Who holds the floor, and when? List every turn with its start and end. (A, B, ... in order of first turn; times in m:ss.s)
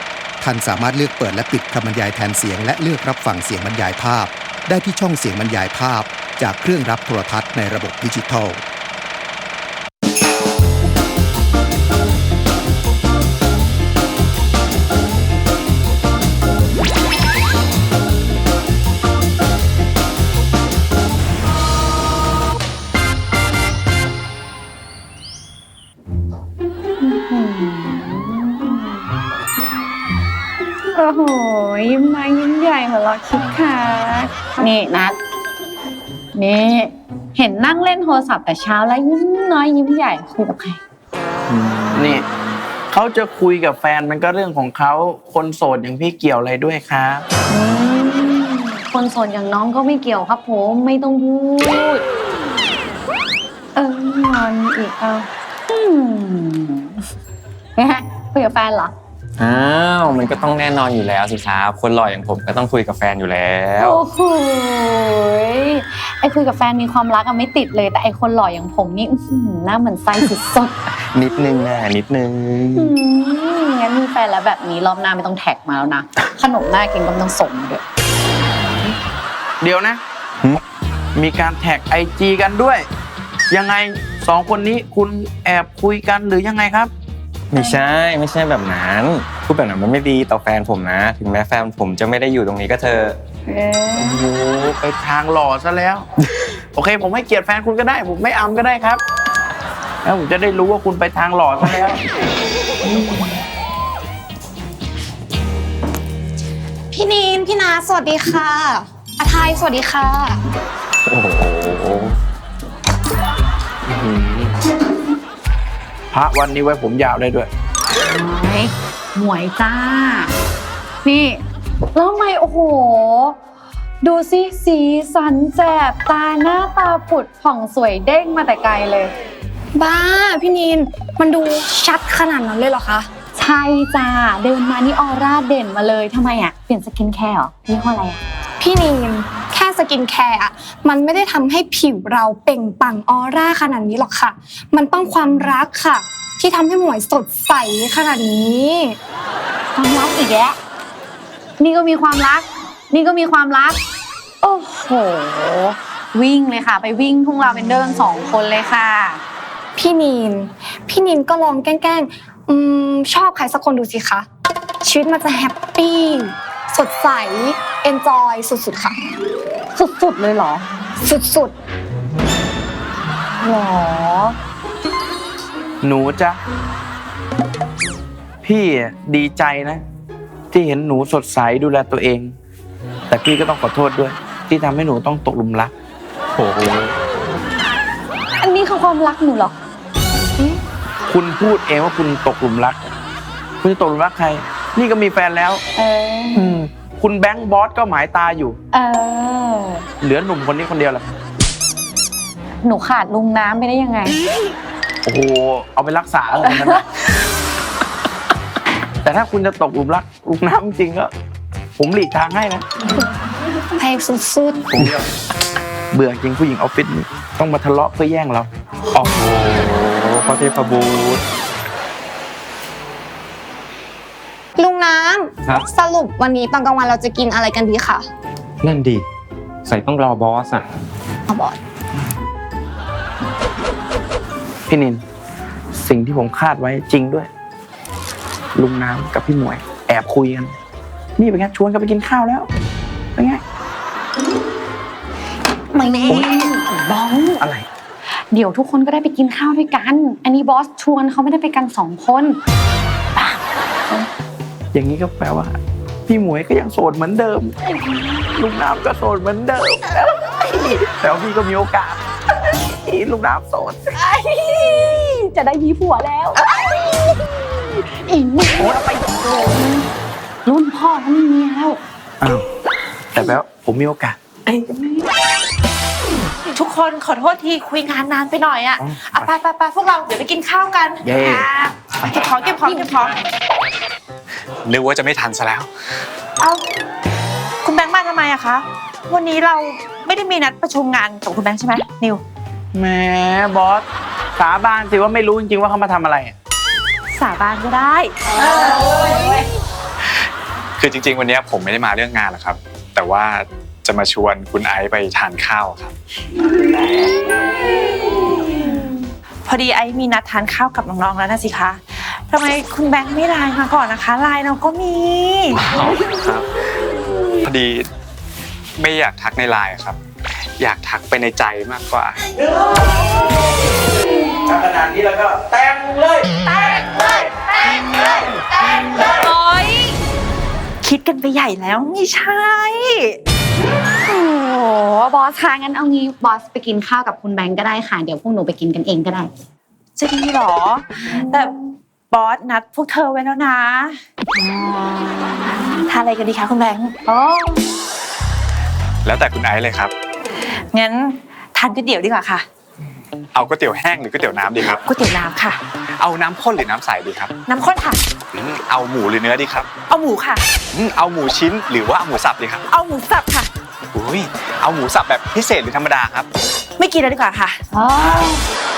0:00.4-0:08.6 A
0:27.0-0:29.1 B
0:30.9-0:35.2 B
0:36.3-0:40.8 B
0:41.5-0:42.3 C
0:42.9-0:47.2 C
0:47.5-0:52.0 B
0:53.8-0:57.0 B
0:57.8-0:58.9 B
0:59.4-1:04.0 D
1:03.8-1:10.8 B
1:11.1-1:12.9 D
1:12.7-1:17.8 B
1:19.6-1:20.0 C
1:21.2-1:22.9 C
1:23.5-1:26.9 C
1:27.5-1:33.2 D
1:33.5-1:34.2 B
1:34.0-1:34.6 D
1:34.4-1:36.1 C
1:36.8-1:39.0 C
1:40.0-1:42.0 C
1:42.9-1:43.2 B
1:46.9-1:50.4 E
1:51.1-1:52.1 D
1:53.9-1:54.5 C
1:56.1-1:57.5 C
1:58.0-2:00.4 B
2:01.0-2:01.4 B
2:01.9-2:03.4 B
2:04.0-2:09.1 B
2:09.8-2:13.1 E
2:13.4-2:18.2 B
2:18.6-2:29.0 E
2:29.7-2:30.6 B
2:31.6-2:33.8 B
2:34.4-2:39.2 B
2:39.8-2:44.3 E
2:44.8-2:49.0 E
2:49.7-2:50.7 B
2:51.0-2:51.5 E
2:53.4-2:54.4 B
2:55.8-2:56.4 C
2:58.4-2:59.8 C
3:00.5-3:02.3 C
3:03.1-3:05.7 C
3:06.4-3:06.9 D
3:08.4-3:09.6 B
3:11.1-3:12.9 C
3:13.6-3:15.6 C
3:15.8-3:16.6 B
3:16.4-3:18.6 C
3:18.7-3:19.9 B
3:20.0-3:21.0 C
3:22.6-3:24.2 B
3:25.0-3:26.8 C
3:26.4-3:26.8 B
3:29.0-3:31.1 C
3:31.8-3:32.7 C
3:33.8-3:34.8 E
3:35.9-3:38.5 C
3:38.9-3:41.2 D
3:44.6-3:48.0 E
3:48.6-3:49.0 D
3:49.6-3:50.7 D
3:51.3-3:51.6 E
3:54.7-3:55.0 C
3:55.8-3:57.3 C
3:58.6-4:00.5 C
4:01.2-4:02.5 C
4:03.2-4:03.4 C
4:05.7-4:07.5 B
4:07.4-4:07.6 C
4:08.3-4:12.4 B
4:13.2-4:14.1 B
4:14.7-4:17.6 C
4:17.6-4:18.3 B
4:18.3-4:20.1 C
4:20.2-4:20.8 B
4:20.8-4:22.0 C
4:22.8-4:23.8 C
4:23.9-4:29.9 B
4:30.4-4:31.8 B
4:33.1-4:34.2 C
4:34.5-4:35.1 B
4:36.5-4:41.4 F
4:38.8-4:39.2 C
4:41.0-4:41.5 C
4:42.0-4:43.2 F
4:44.6-4:45.7 G
4:47.6-4:52.2 F
4:52.7-4:53.8 C
4:54.4-4:56.4 C
4:57.1-4:59.3 F
5:00.8-5:05.9 G
5:09.5-5:15.6 F
5:15.7-5:16.5 G
5:17.4-5:17.9 G
5:18.8-5:20.0 G
5:20.6-5:22.2 G
5:24.5-5:27.3 C
5:29.1-5:29.9 F
5:30.8-5:33.2 F
5:34.0-5:39.3 B
5:40.0-5:41.6 F
5:41.1-5:41.4 B
5:42.1-5:44.0 F
5:44.4-5:45.4 B
5:45.7-5:47.0 F
5:47.1-5:47.6 B
5:49.0-5:49.9 G
5:50.6-5:52.4 F
5:53.3-5:54.8 G
5:54.9-5:55.6 F
5:56.0-5:57.4 G
5:57.5-5:58.0 F
5:58.3-5:59.7 G
5:59.9-6:00.4 F
6:00.7-6:02.6 G
6:02.7-6:03.5 F
6:03.9-6:06.3 G
6:06.8-6:07.6 F
6:07.7-6:08.4 B